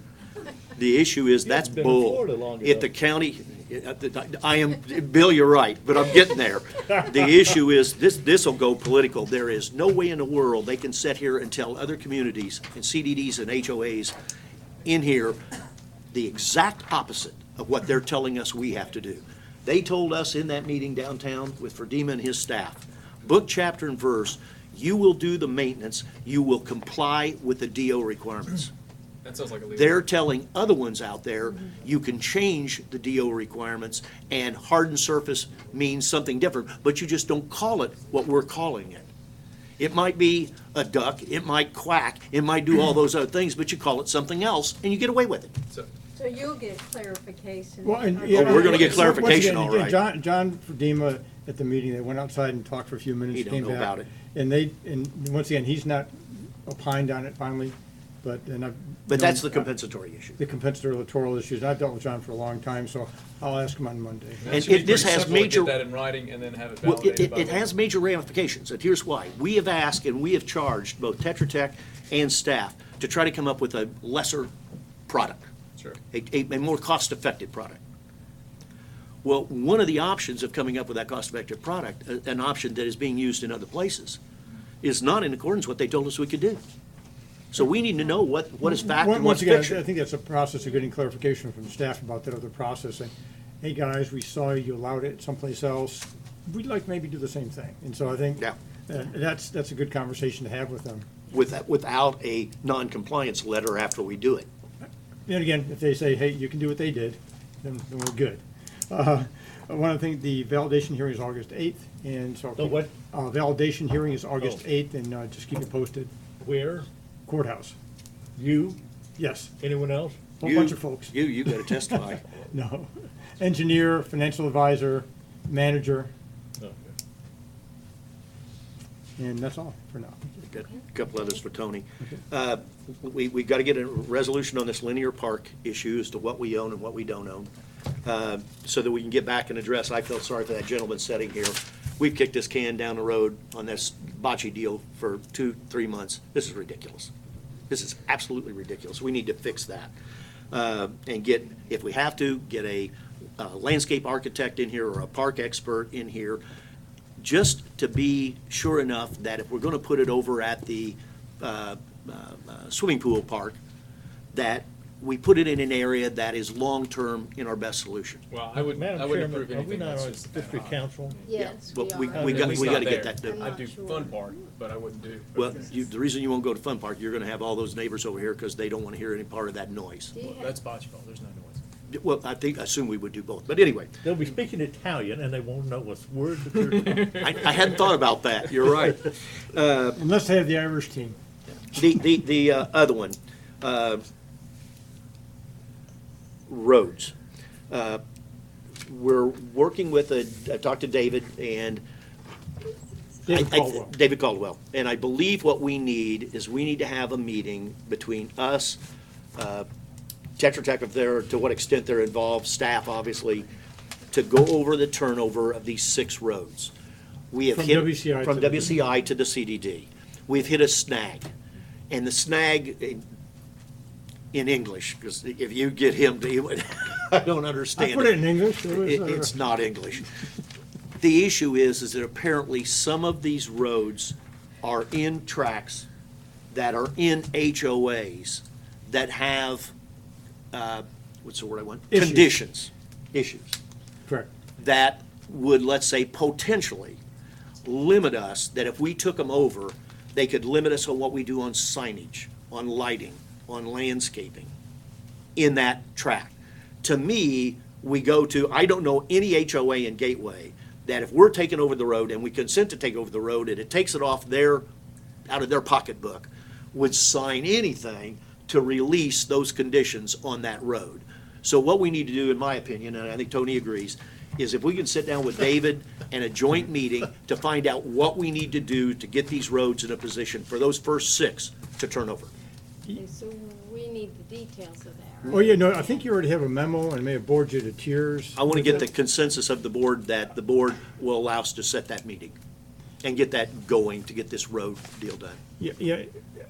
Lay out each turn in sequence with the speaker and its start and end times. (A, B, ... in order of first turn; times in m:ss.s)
0:00.8-0:14.1 A
0:01.4-0:02.9 B
0:14.8-0:15.4 A
0:16.1-0:28.7 A
0:29.2-0:30.1 C
0:29.8-0:39.1 A
0:39.8-0:45.5 A
0:46.2-0:49.3 D
0:47.8-0:59.7 E
0:48.3-0:50.0 A
0:48.8-0:49.1 C
0:53.3-0:54.1 A
0:59.1-1:00.4 A
1:00.4-1:04.9 E
1:04.4-1:07.8 C
1:04.5-1:05.8 A
1:06.8-1:14.5 A
1:15.1-1:15.5 A
1:16.1-1:17.8 A
1:19.2-1:24.2 A
1:24.8-1:26.6 A
1:27.5-1:29.8 A
1:28.6-1:41.1 E
1:41.3-1:44.5 A
1:45.3-1:56.1 E
1:52.6-1:52.9 B
1:54.4-1:54.6 B
1:56.4-1:56.9 B
1:57.3-1:57.8 E
1:58.4-1:58.8 B
1:59.2-1:59.5 E
1:59.6-2:00.2 B
2:00.4-2:06.1 E
2:00.4-2:02.3 A
2:06.6-2:06.9 B
2:09.2-2:10.3 E
2:10.4-2:17.5 A
2:18.0-2:27.1 A
2:27.7-2:29.9 A
2:30.5-2:36.4 A
2:37.2-2:43.6 A
2:44.3-2:48.2 A
2:48.3-2:51.5 C
2:48.5-2:51.2 B
2:51.2-2:54.4 D
2:51.4-2:53.6 A
2:52.1-2:52.9 B
2:52.2-2:55.7 C
2:55.4-3:00.1 A
3:00.1-3:00.6 D
3:00.2-3:01.6 C
3:01.9-3:03.9 A
3:04.0-3:07.4 B
3:07.1-3:10.0 A
3:10.0-3:11.2 E
3:11.7-3:14.0 A
3:16.5-3:17.1 A
3:17.7-3:18.0 A
3:18.9-3:21.8 A
3:23.3-3:23.9 E
3:23.3-3:28.8 A
3:29.4-3:29.7 A
3:30.4-3:33.5 A
3:34.1-3:36.7 A
3:37.3-3:41.3 A
3:37.5-3:38.8 E
3:41.9-3:43.1 A
3:44.3-3:50.1 A
3:47.8-3:49.3 E
3:51.0-3:55.9 A
3:56.5-3:59.7 A
4:00.5-4:03.6 A
4:01.9-4:02.4 E
4:04.6-4:07.0 A
4:07.6-4:14.5 A
4:15.4-4:24.6 A
4:25.3-4:42.3 A
4:42.9-4:46.0 D
4:45.3-4:48.8 E
4:48.4-4:52.4 A
4:53.0-4:55.4 A
4:55.6-4:56.1 E